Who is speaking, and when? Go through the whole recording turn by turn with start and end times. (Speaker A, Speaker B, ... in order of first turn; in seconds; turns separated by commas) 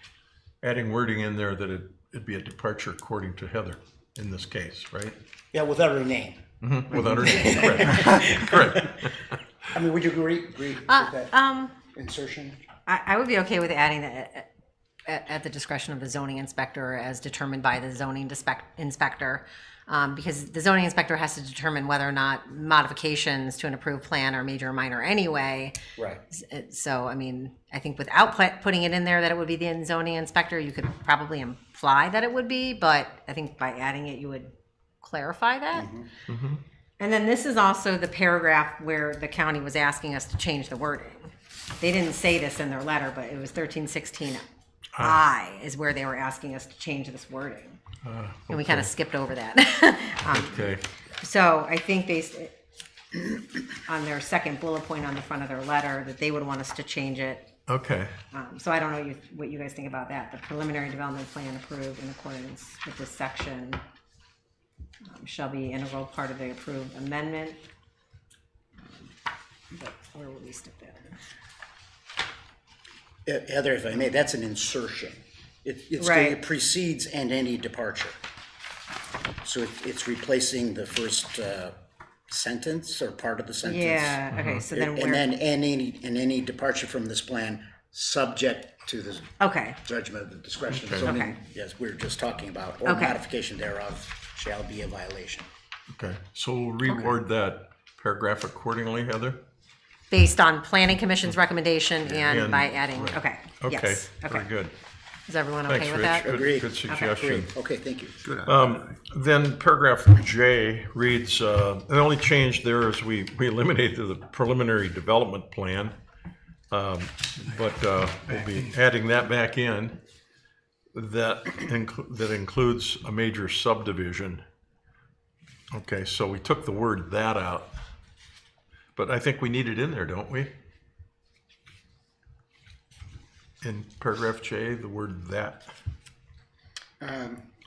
Speaker A: 0.6-5.2, Speaker B: 5.5-9.0, Speaker A: 6.6-9.4, Speaker B: 9.7-12.6, Speaker C: 10.9-11.7, Speaker C: 12.9-14.5, Speaker C: 15.1-25.8, Speaker B: 26.0-26.2, Speaker C: 26.3-34.5, Speaker C: 35.0-35.9, Speaker B: 35.7-36.1, Speaker A: 36.3-36.6, Speaker C: 37.0-44.5, Speaker A: 45.0-45.2, Speaker C: 45.0-47.8, Speaker A: 48.0-48.9, Speaker C: 48.5-52.6, Speaker A: 50.3-50.8, Speaker C: 53.1-57.5, Speaker A: 57.7-58.1, Speaker C: 58.3-63.8, Speaker C: 65.0-67.6, Speaker C: 69.7-71.2, Speaker B: 73.3-78.2, Speaker C: 76.0-76.4, Speaker B: 79.4-81.8, Speaker B: 82.3-95.5, Speaker C: 83.6-85.3, Speaker A: 84.3-84.7, Speaker C: 89.4-89.8, Speaker A: 90.7-91.1, Speaker C: 91.0-91.3, Speaker C: 92.8-93.2, Speaker A: 95.9-99.4, Speaker C: 100.1-104.5, Speaker A: 102.1-104.7, Speaker C: 105.3-107.1, Speaker A: 105.7-107.5, Speaker B: 106.2-108.4, Speaker A: 108.3-116.0, Speaker A: 116.7-120.0, Speaker A: 120.9-124.4, Speaker A: 125.7-127.7, Speaker A: 129.0-130.5, Speaker A: 133.6-135.7, Speaker B: 137.0-137.4